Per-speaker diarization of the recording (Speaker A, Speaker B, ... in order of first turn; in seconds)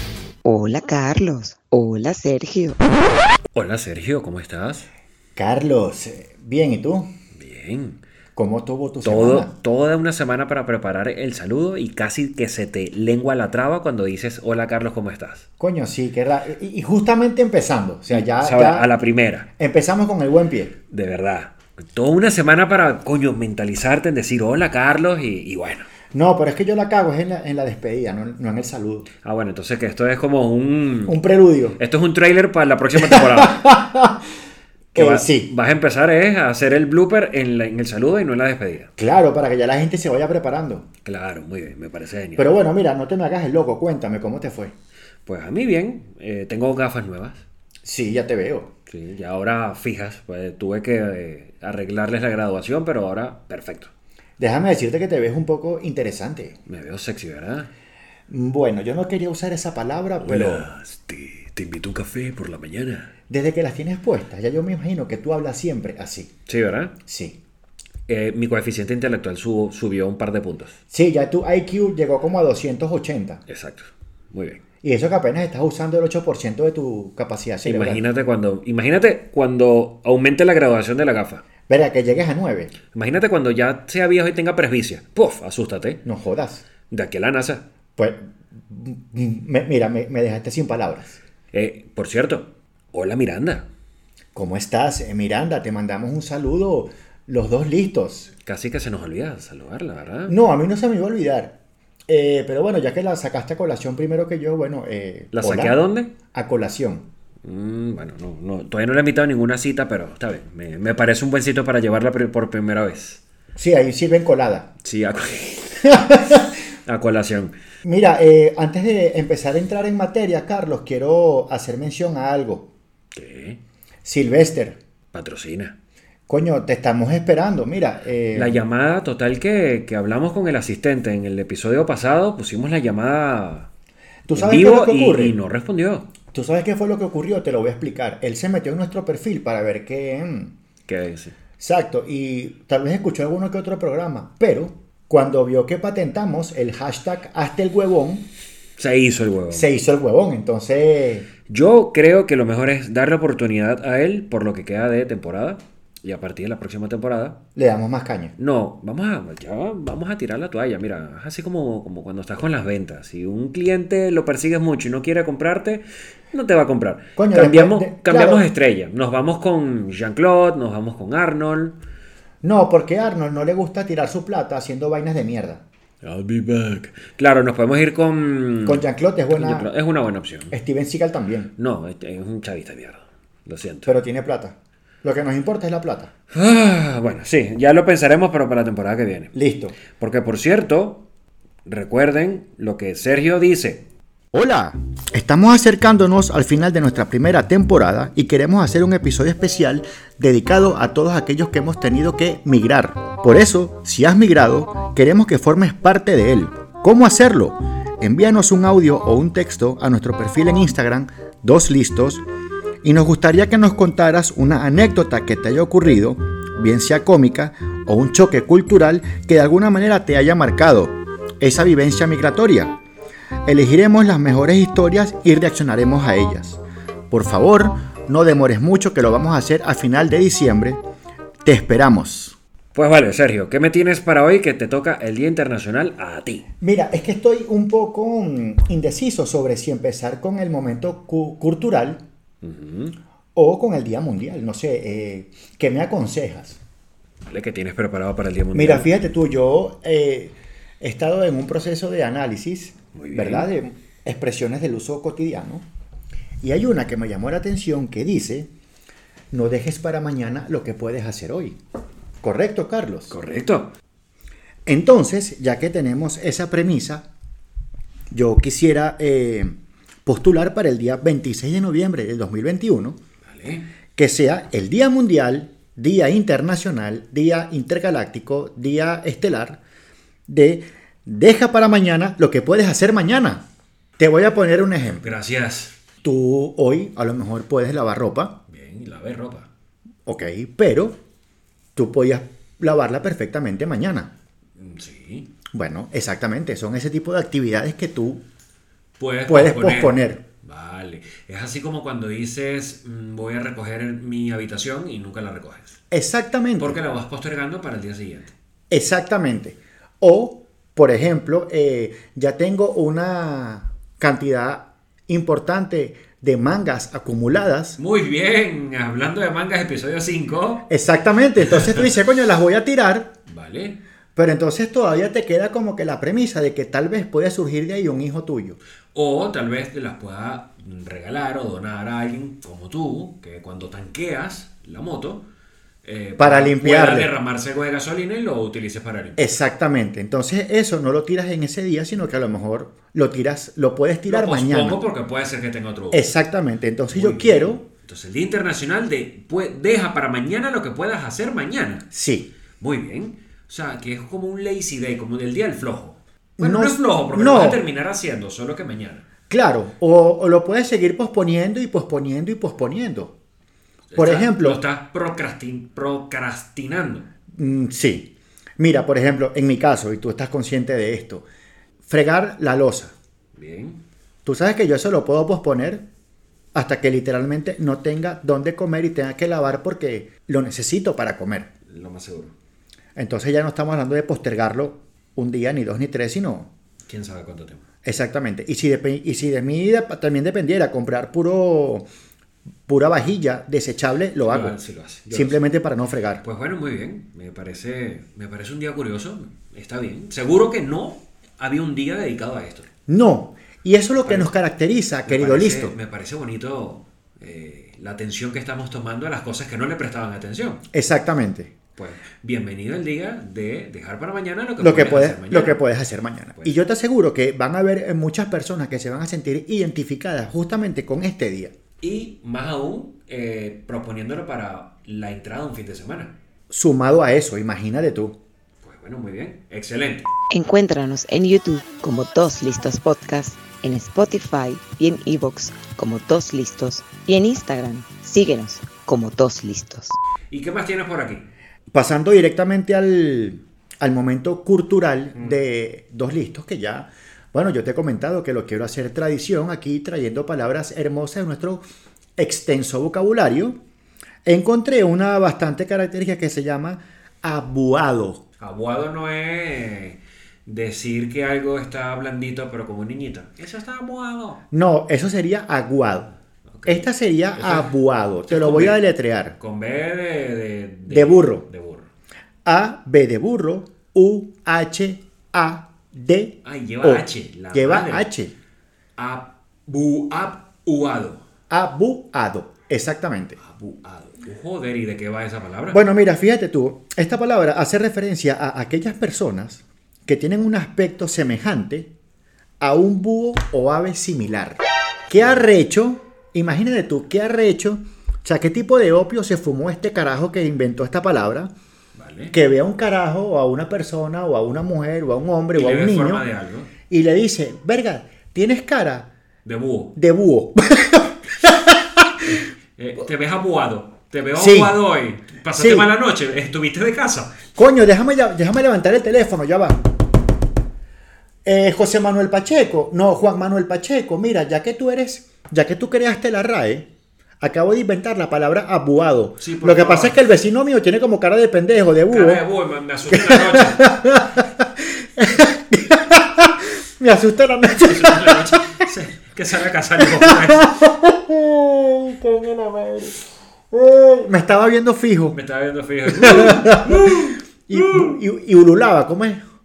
Speaker A: 0.4-2.8, 430.3-440.0
Speaker B: 3.5-4.9, 7.4-8.0, 9.0-15.5, 18.1-19.5, 20.9-25.9, 29.2-31.2, 31.8-33.7, 35.0-38.9, 41.0-42.5, 45.2-47.4, 48.9-53.9, 56.7-57.7, 60.2-63.1, 66.5-66.9, 68.1-70.8, 73.5-74.6, 77.6-81.4, 82.9-86.0, 86.9-87.6, 91.5-93.7, 98.4-100.3, 105.3-106.1, 107.4-113.2, 114.8-116.0, 116.9-117.5, 123.1-123.6, 125.1-125.8, 128.3-133.7, 134.3-136.1, 140.9-141.3, 148.8-149.7, 151.5-157.4, 158.4-171.8, 176.0-180.6, 181.6-183.9, 186.3-189.3, 189.9-191.1, 191.7-193.8, 232.8-236.4, 242.4-243.0, 247.3-248.9, 252.9-253.5, 263.1-263.7, 273.2-273.7, 285.0-285.8, 288.5-289.5, 294.6-295.3, 299.0-305.8, 306.6-308.3, 317.8-320.6, 321.4-321.8, 323.3-323.8, 328.9-335.2, 335.8-339.4, 344.1-346.1, 346.9-351.9, 352.6-359.1, 363.9-367.1, 373.3-373.8, 381.7-382.3, 386.9-387.6, 394.2-395.4, 396.2-402.7, 404.0-404.3, 405.1-410.6, 411.8-415.6, 421.8-426.1, 428.6-430.1, 440.3-441.3, 458.4-464.4, 466.5-468.8, 469.4-471.9, 476.4-478.1, 479.0-481.2, 483.4-485.8, 495.2-495.4, 501.9-502.3, 505.5-506.7, 509.4-509.9, 512.2-517.4, 529.4-530.2, 532.1-534.0, 537.8-540.7, 545.3-548.2
Speaker C: 5.4-7.1, 8.4-9.5, 15.6-18.9, 19.6-20.8, 26.1-29.1, 31.1-31.8, 33.0-34.2, 34.9-35.5, 39.0-40.9, 42.4-44.7, 47.8-48.7, 54.4-56.6, 58.3-60.7, 63.3-66.3, 67.0-67.4, 70.9-73.4, 74.8-78.0, 81.7-82.7, 86.0-86.6, 88.0-91.2, 94.3-98.3, 100.3-101.5, 102.1-105.8, 106.3-107.1, 113.5-114.7, 115.8-116.5, 117.8-122.7, 124.0-124.8, 126.3-128.6, 134.3-135.4, 136.3-140.5, 141.6-148.3, 149.5-151.3, 157.6-158.3, 167.2-168.4, 172.4-175.6, 178.7-179.7, 180.5-181.5, 183.8-186.1, 189.3-189.8, 194.3-212.2, 212.8-222.8, 223.5-230.8, 231.4-232.4, 236.6-242.0, 243.3-246.6, 248.5-255.7, 256.4-258.5, 259.3-261.6, 262.2-263.1, 264.6-267.0, 268.1-269.5, 270.1-273.0, 273.9-279.6, 280.3-283.4, 284.0-285.1, 286.0-288.3, 290.1-291.0, 291.8-294.1, 295.5-298.2, 299.3-300.2, 305.9-306.8, 308.7-317.8, 320.7-323.1, 324.1-328.6, 336.2-337.1, 339.2-344.8, 345.9-347.6, 351.9-352.3, 356.4-357.6, 359.3-363.1, 363.9-364.6, 367.3-371.2, 371.9-372.9, 374.2-375.8, 376.5-381.5, 382.9-386.5, 387.8-391.9, 392.7-394.6, 395.1-396.2, 402.9-405.7, 410.7-411.5, 414.6-421.5, 426.5-428.2, 441.7-451.6, 452.2-453.6, 454.2-458.2, 464.5-466.1, 466.6-469.4, 470.9-471.4, 472.4-478.3, 481.5-483.4, 485.7-491.9, 492.6-501.5, 502.3-506.2, 506.9-509.1, 509.9-512.4, 514.4-514.8, 515.6-515.9, 517.6-519.8, 521.5-526.9, 527.4-532.4, 533.1-538.6, 540.0-545.4, 546.1-549.4